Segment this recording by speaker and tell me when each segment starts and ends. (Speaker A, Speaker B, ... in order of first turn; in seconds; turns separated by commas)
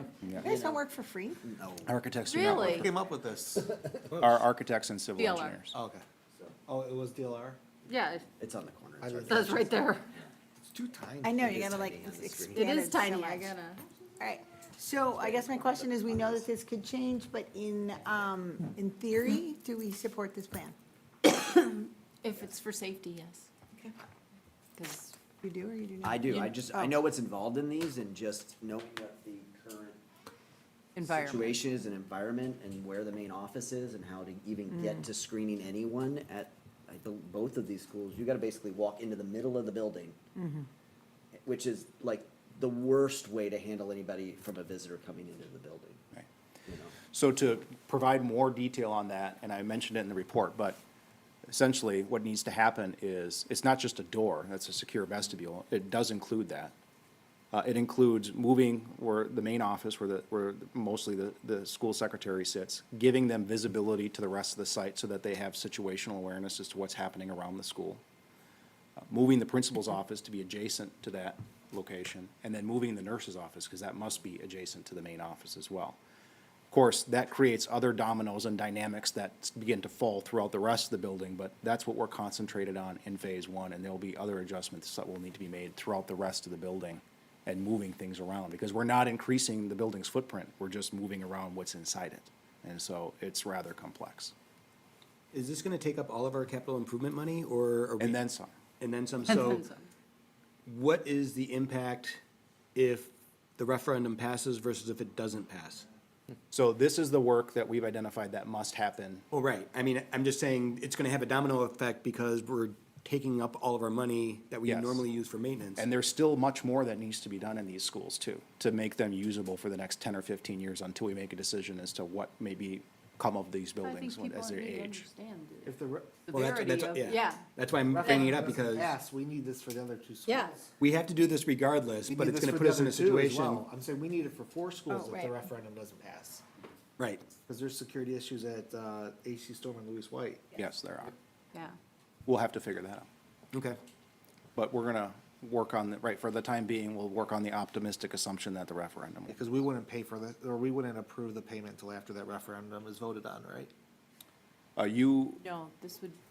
Speaker A: 0.2-0.5, Speaker B: 0.4-0.8, Speaker C: 0.4-1.4, Speaker B: 1.4-2.0, Speaker A: 1.9-2.9, Speaker D: 2.3-2.9, Speaker E: 2.4-4.4, Speaker A: 4.2-5.7, Speaker D: 5.2-5.6, Speaker E: 5.7-7.6, Speaker D: 7.9-8.3, Speaker B: 8.4-10.3, Speaker E: 9.0-9.6, Speaker D: 9.3-10.1, Speaker E: 10.6-11.3, Speaker C: 11.2-13.6, Speaker B: 11.3-12.7, Speaker D: 12.5-13.8, Speaker C: 14.2-20.8, Speaker B: 15.2-16.5, Speaker D: 21.2-23.5, Speaker D: 24.8-25.1, Speaker C: 25.4-27.0, Speaker B: 26.0-30.0, Speaker D: 31.0-31.6, Speaker B: 31.0-40.2, Speaker C: 40.4-40.7, Speaker B: 41.4-46.0, Speaker B: 46.7-47.0, Speaker A: 47.1-50.8, Speaker A: 51.5-56.7, Speaker A: 57.5-68.0, Speaker A: 69.1-76.0, Speaker A: 76.7-94.3, Speaker F: 95.3-98.2, Speaker A: 98.0-98.5, Speaker F: 98.8-99.7, Speaker D: 99.4-99.9, Speaker F: 100.7-102.2, Speaker F: 102.8-105.9, Speaker A: 106.5-109.2, Speaker F: 109.3-115.8, Speaker A: 114.7-115.0, Speaker A: 115.8-125.1, Speaker D: 123.8-127.5, Speaker E: 125.7-126.9, Speaker F: 126.3-129.0, Speaker E: 127.9-130.7, Speaker D: 128.0-128.3, Speaker D: 130.3-130.6, Speaker F: 130.8-133.7, Speaker E: 132.0-136.4, Speaker F: 137.0-137.3, Speaker E: 137.3-140.5, Speaker A: 140.6-141.1, Speaker A: 142.3-143.1, Speaker F: 143.5-143.8, Speaker A: 144.6-149.4, Speaker E: 149.3-153.7, Speaker A: 154.8-155.4, Speaker D: 155.4-156.2